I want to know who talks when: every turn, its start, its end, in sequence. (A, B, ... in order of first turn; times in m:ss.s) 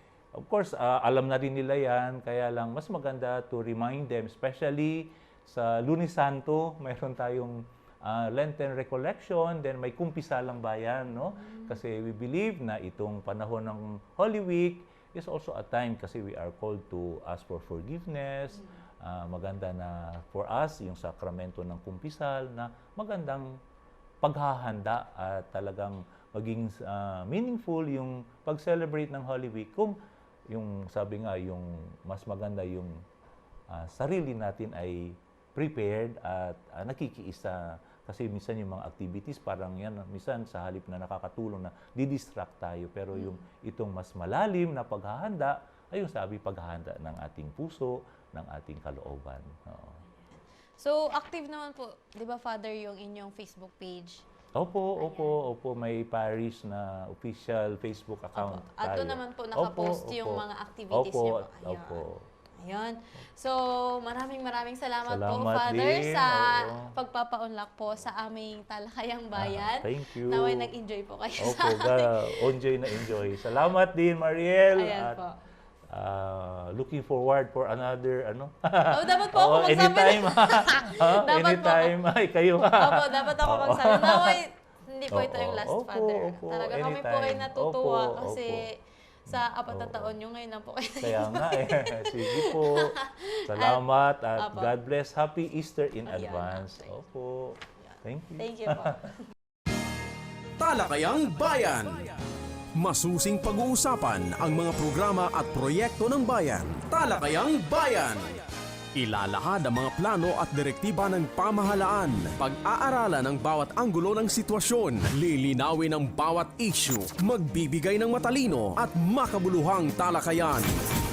0:00.3-0:23.6 A
0:11.4-0:11.8 B
0:24.2-0:30.0 A
0:30.5-0:33.0 A
0:33.7-0:50.0 A
0:43.1-0:43.4 B
0:50.2-0:54.2 B
0:54.6-1:02.2 A
0:55.0-0:55.4 B
0:58.3-1:02.0 B
1:02.6-1:13.4 B
1:05.1-1:06.9 A
1:09.3-1:10.7 A
1:11.4-1:15.2 A
1:14.7-1:15.4 B
1:15.9-1:24.4 A
1:18.9-1:22.0 B
1:22.7-1:34.7 B
1:25.1-1:28.7 A
1:29.3-1:30.1 A
1:31.0-1:39.1 A
1:36.0-1:37.0 B
1:38.4-1:39.3 B
1:40.6-1:42.1 C
1:42.8-1:48.4 C
1:49.0-2:00.7 C